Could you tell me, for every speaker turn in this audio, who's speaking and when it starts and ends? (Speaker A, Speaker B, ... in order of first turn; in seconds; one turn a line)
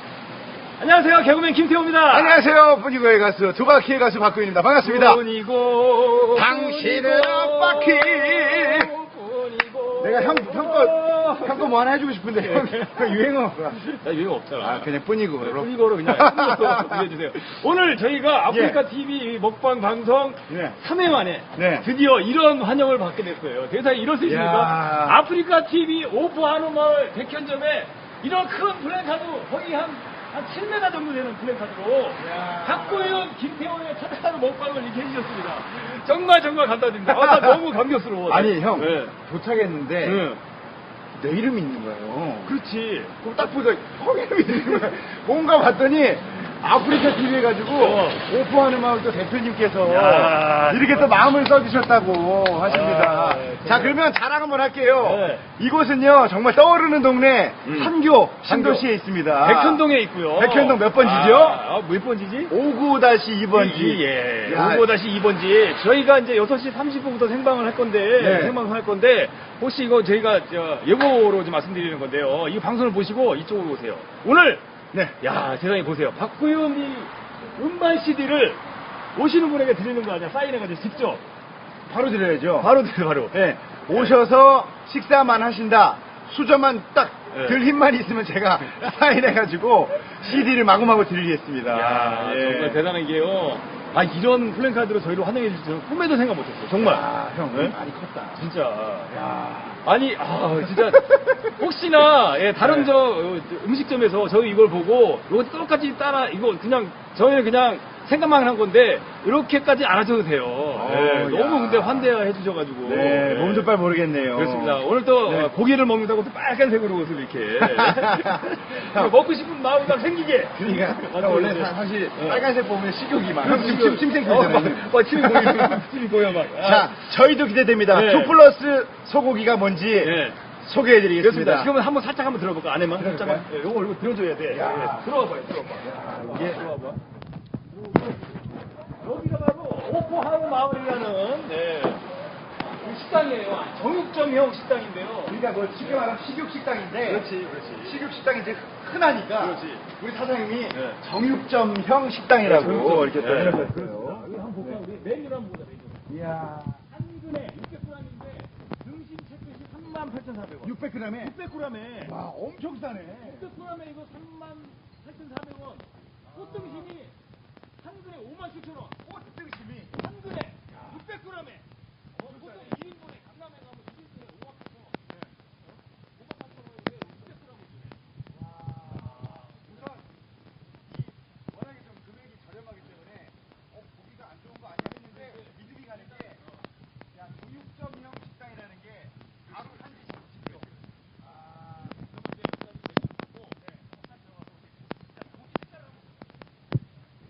Speaker A: 0.8-2.5
Speaker B: 2.1-5.2
Speaker A: 4.8-11.8
Speaker B: 6.3-8.9
Speaker B: 10.0-13.9
Speaker A: 12.3-39.1
Speaker B: 14.6-17.1
Speaker B: 18.5-18.8
Speaker B: 20.5-20.8
Speaker B: 21.5-21.9
Speaker B: 24.2-25.2
Speaker B: 32.2-33.3
Speaker B: 37.0-40.3
Speaker A: 40.0-40.4
Speaker B: 41.2-42.6
Speaker A: 42.4-43.5
Speaker B: 43.2-61.6
Speaker A: 47.7-48.2
Speaker A: 49.8-51.3
Speaker A: 52.6-54.1
Speaker A: 55.0-55.5
Speaker A: 57.6-58.9
Speaker A: 59.4-62.5
Speaker B: 62.5-64.9
Speaker A: 63.5-74.7
Speaker B: 68.2-68.6
Speaker A: 75.2-78.6
Speaker A: 79.1-81.2
Speaker B: 81.9-82.7
Speaker A: 82.6-84.1
Speaker B: 83.3-92.8
Speaker A: 87.3-87.6
Speaker A: 91.7-97.8
Speaker B: 96.7-98.4
Speaker A: 98.3-99.2
Speaker B: 99.1-99.8
Speaker A: 99.8-113.7
Speaker B: 100.6-101.4
Speaker B: 102.6-102.9
Speaker B: 110.7-112.2
Speaker B: 112.8-115.5
Speaker A: 114.3-122.5
Speaker B: 117.6-119.2
Speaker B: 120.5-125.9
Speaker A: 123.4-127.1
Speaker B: 126.5-131.7
Speaker A: 127.9-128.4
Speaker A: 130.0-130.4
Speaker A: 131.2-137.0
Speaker B: 132.9-133.5
Speaker B: 134.5-135.1
Speaker B: 135.8-136.6
Speaker A: 139.0-142.0
Speaker A: 142.8-146.1
Speaker B: 145.3-147.3
Speaker A: 147.0-148.0
Speaker B: 147.8-154.8
Speaker A: 149.4-149.9
Speaker A: 150.7-151.0
Speaker A: 152.4-156.1
Speaker B: 156.1-156.8
Speaker A: 156.8-162.1
Speaker B: 160.6-161.3
Speaker B: 162.0-163.5
Speaker A: 163.2-167.2
Speaker B: 166.2-166.9
Speaker A: 167.8-169.0
Speaker B: 169.0-170.0
Speaker A: 169.9-175.2
Speaker B: 170.7-171.0
Speaker B: 172.2-172.8
Speaker A: 176.2-178.1
Speaker B: 178.3-180.1
Speaker A: 178.9-179.9
Speaker B: 180.9-186.4
Speaker A: 185.0-186.7
Speaker B: 187.1-190.7
Speaker A: 189.4-196.2